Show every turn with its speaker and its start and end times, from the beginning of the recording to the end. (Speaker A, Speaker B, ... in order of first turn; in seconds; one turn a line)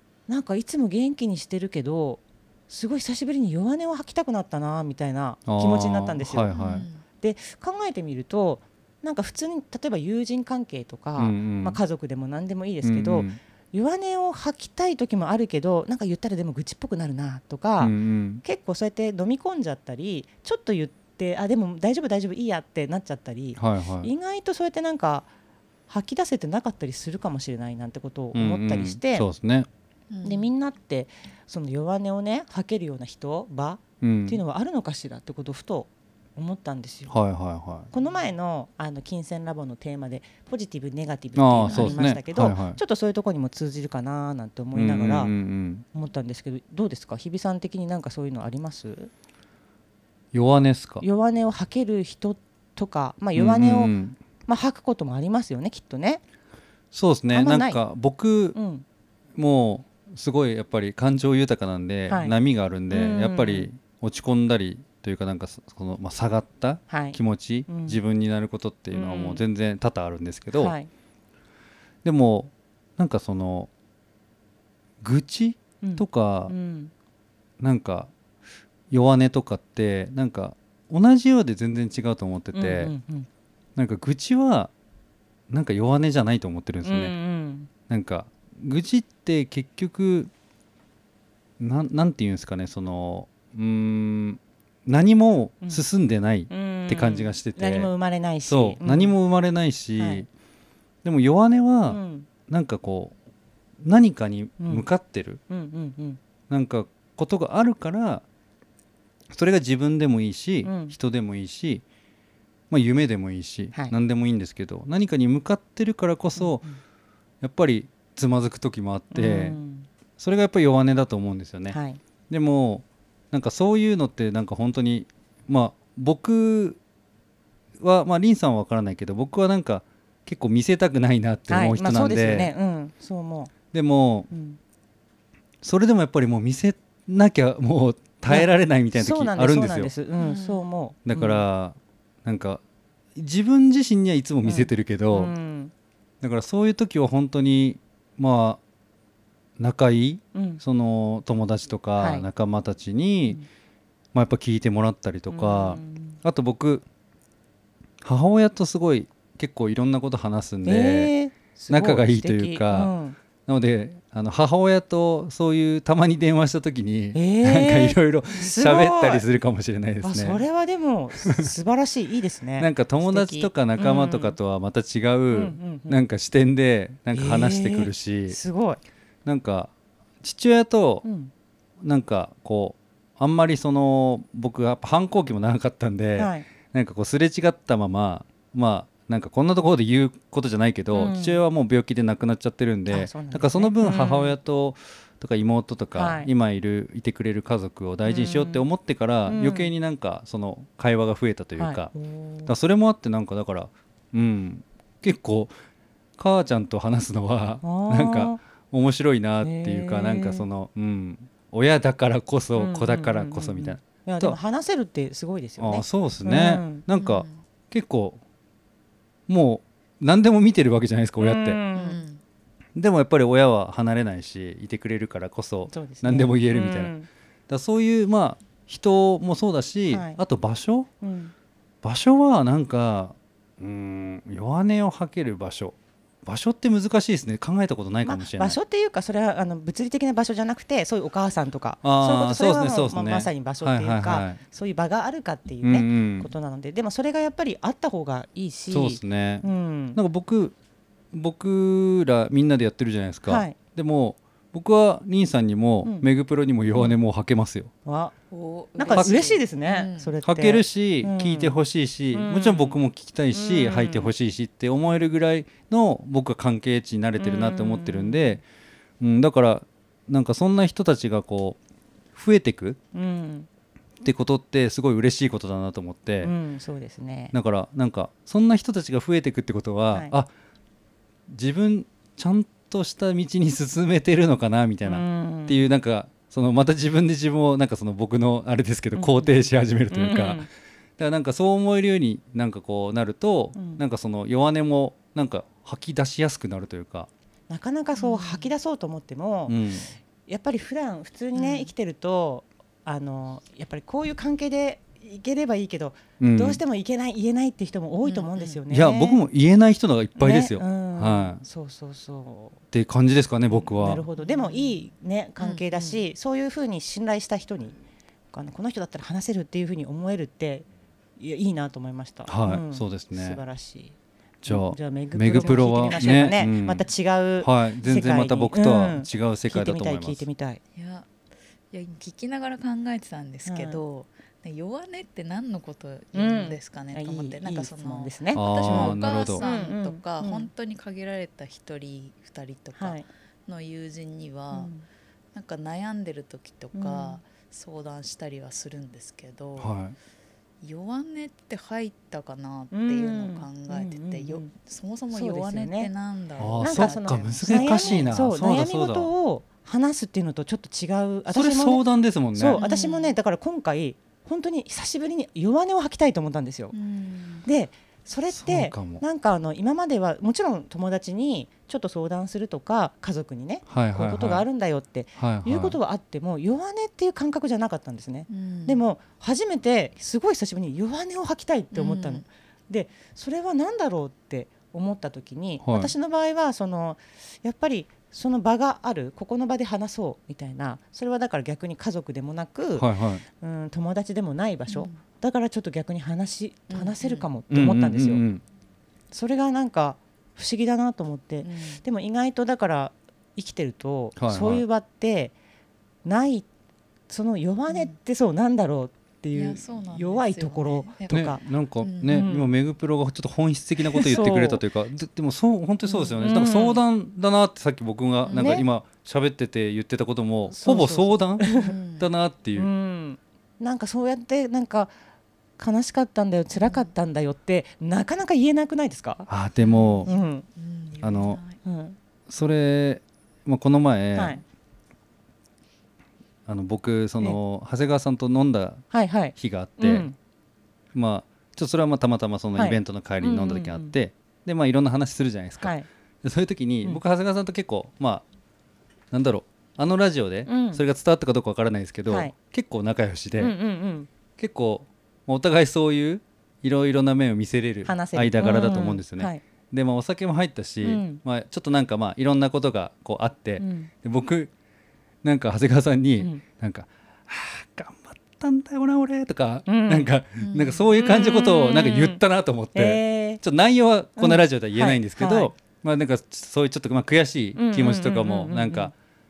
Speaker A: 0.3-25.3
Speaker B: 5.5-6.8
Speaker C: 6.5-7.0
Speaker B: 11.2-11.8
Speaker B: 12.8-13.4
Speaker B: 17.8-18.4
Speaker B: 23.6-24.1
Speaker A: 25.9-29.2
Speaker B: 28.3-29.7
Speaker C: 30.1-30.5
Speaker A: 30.2-37.1
Speaker B: 34.0-34.4
Speaker B: 37.1-37.9
Speaker A: 37.9-45.3
Speaker B: 41.4-42.8
Speaker C: 41.7-42.1
Speaker B: 44.7-45.8
Speaker A: 45.9-49.1
Speaker B: 50.3-51.0
Speaker A: 51.0-53.9
Speaker B: 53.4-54.2
Speaker A: 54.4-56.2
Speaker B: 56.9-58.6
Speaker A: 57.3-57.8
Speaker A: 58.5-58.8
Speaker B: 59.4-70.7
Speaker A: 62.1-62.4
Speaker A: 62.9-63.7
Speaker A: 66.9-68.0
Speaker A: 68.9-69.4
Speaker A: 70.5-70.9
Speaker B: 72.0-73.7
Speaker B: 75.0-76.5
Speaker A: 75.8-76.9
Speaker B: 77.6-78.1
Speaker B: 78.9-82.9
Speaker A: 82.5-83.3
Speaker B: 83.8-84.7
Speaker B: 85.5-87.1
Speaker A: 86.8-87.7
Speaker B: 87.9-90.3
Speaker B: 91.6-97.9
Speaker A: 96.5-99.2
Speaker B: 98.5-100.3
Speaker A: 100.0-100.2
Speaker B: 101.0-103.1
Speaker A: 101.9-102.3
Speaker B: 103.8-105.4
Speaker A: 104.6-104.9
Speaker A: 105.5-106.2
Speaker B: 106.5-108.2
Speaker B: 109.3-111.8
Speaker A: 110.6-111.0
Speaker B: 112.7-116.6
Speaker A: 116.4-116.8
Speaker B: 117.4-119.6
Speaker A: 119.1-119.9
Speaker B: 120.2-121.8
Speaker A: 121.7-122.0
Speaker B: 122.3-126.8
Speaker B: 127.8-132.5
Speaker A: 131.5-133.5
Speaker B: 133.7-134.3
Speaker A: 134.3-134.6
Speaker B: 135.6-139.9
Speaker A: 138.3-141.4
Speaker C: 140.2-140.6
Speaker B: 141.1-142.6
Speaker B: 143.1-145.3
Speaker A: 144.4-145.7
Speaker B: 146.2-148.6
Speaker B: 149.6-153.4
Speaker A: 150.3-150.6
Speaker A: 152.0-152.2
Speaker B: 154.1-156.8
Speaker A: 155.3-156.2
Speaker B: 158.0-161.1
Speaker A: 160.6-163.2
Speaker B: 161.7-162.9
Speaker B: 163.4-170.4
Speaker A: 167.1-169.2
Speaker A: 170.0-174.4
Speaker B: 172.6-178.4
Speaker A: 175.3-176.0
Speaker A: 177.1-178.8
Speaker B: 179.2-181.0
Speaker A: 181.0-181.3
Speaker B: 181.8-201.9
Speaker A: 186.2-186.5
Speaker A: 190.9-191.4
Speaker A: 192.9-194.4
Speaker A: 195.9-196.3
Speaker A: 198.0-198.7
Speaker A: 199.2-199.7
Speaker A: 201.6-202.5
Speaker B: 202.4-205.5
Speaker B: 206.2-214.4
Speaker A: 207.6-208.4
Speaker A: 209.4-210.4
Speaker A: 212.6-216.8
Speaker B: 215.6-218.2
Speaker C: 216.9-217.4
Speaker B: 219.3-221.6
Speaker A: 221.2-222.0
Speaker C: 221.7-222.2
Speaker B: 222.8-226.9
Speaker A: 225.7-227.1
Speaker B: 227.5-230.9
Speaker A: 229.9-230.2
Speaker A: 231.0-231.3
Speaker B: 231.8-238.6
Speaker A: 238.0-250.0
Speaker B: 241.8-244.4
Speaker B: 245.6-246.3
Speaker B: 248.7-250.5
Speaker B: 251.1-257.7
Speaker A: 253.3-253.6
Speaker A: 257.8-258.1
Speaker C: 258.3-260.1
Speaker A: 258.7-261.6
Speaker B: 260.2-268.4
Speaker A: 262.1-262.8
Speaker A: 263.3-264.1
Speaker A: 267.2-268.4
Speaker B: 269.0-271.6
Speaker B: 272.1-272.8
Speaker A: 272.9-273.5
Speaker B: 274.0-276.3
Speaker A: 276.2-277.3
Speaker B: 277.3-280.3
Speaker B: 281.3-290.4
Speaker A: 284.8-285.6
Speaker A: 288.9-290.5
Speaker B: 291.0-297.1
Speaker A: 293.5-293.8
Speaker A: 297.5-299.6
Speaker C: 297.9-298.5
Speaker B: 299.5-299.9
Speaker A: 300.3-309.2
Speaker C: 301.3-301.7
Speaker B: 306.2-306.6
Speaker C: 308.0-308.6
Speaker B: 308.7-311.4
Speaker A: 310.2-312.6
Speaker B: 312.7-314.1
Speaker A: 313.8-317.8
Speaker C: 314.2-314.8
Speaker C: 315.4-316.0
Speaker A: 318.3-323.9
Speaker B: 322.3-323.4
Speaker B: 324.4-326.9
Speaker A: 324.5-330.6
Speaker C: 325.3-326.2
Speaker B: 327.4-330.2
Speaker C: 330.7-331.1
Speaker C: 331.7-344.7
Speaker A: 333.4-333.8
Speaker A: 336.1-340.5
Speaker B: 338.3-339.4
Speaker A: 342.8-343.0
Speaker A: 344.5-344.8
Speaker C: 345.3-349.7
Speaker A: 346.7-347.2
Speaker B: 349.6-349.9
Speaker C: 350.6-358.1
Speaker A: 352.7-354.5
Speaker A: 355.1-355.9
Speaker B: 356.4-359.1
Speaker A: 356.6-366.7
Speaker B: 361.3-362.6
Speaker C: 362.6-363.1
Speaker C: 366.7-367.4
Speaker A: 367.4-398.2
Speaker B: 368.3-369.0
Speaker B: 373.7-374.4
Speaker B: 375.2-375.8
Speaker C: 378.3-378.8
Speaker C: 381.7-382.2
Speaker B: 385.6-385.9
Speaker B: 392.8-393.2
Speaker C: 394.7-395.0
Speaker C: 396.7-397.3
Speaker B: 397.5-398.4
Speaker A: 399.1-405.3
Speaker C: 401.4-401.8
Speaker B: 404.1-404.6
Speaker A: 406.0-406.5
Speaker A: 407.1-411.4
Speaker C: 409.3-412.3
Speaker B: 411.1-422.7
Speaker A: 412.1-412.5
Speaker A: 413.9-414.6
Speaker C: 415.9-416.2
Speaker A: 416.2-416.8
Speaker C: 418.2-418.6
Speaker A: 418.3-418.6
Speaker A: 420.5-421.7
Speaker C: 421.4-422.1
Speaker A: 422.6-424.9
Speaker A: 425.6-429.3
Speaker C: 426.6-426.9
Speaker B: 429.3-430.1
Speaker C: 429.6-431.6
Speaker A: 430.1-430.4
Speaker B: 431.0-431.4
Speaker A: 431.6-431.9
Speaker B: 432.3-434.4
Speaker A: 434.1-434.4
Speaker B: 436.5-440.1
Speaker A: 438.9-440.1
Speaker B: 440.9-448.2
Speaker A: 442.6-443.9
Speaker A: 445.6-445.9
Speaker B: 449.1-453.5
Speaker A: 450.4-450.8
Speaker A: 452.1-452.3
Speaker A: 453.4-454.1
Speaker B: 454.4-464.5
Speaker A: 457.8-459.4
Speaker A: 460.8-461.2
Speaker A: 463.6-463.9
Speaker B: 465.2-478.9
Speaker A: 469.6-470.1
Speaker C: 470.4-471.5
Speaker A: 471.0-472.2
Speaker A: 472.7-473.4
Speaker A: 474.2-475.5
Speaker A: 477.6-478.9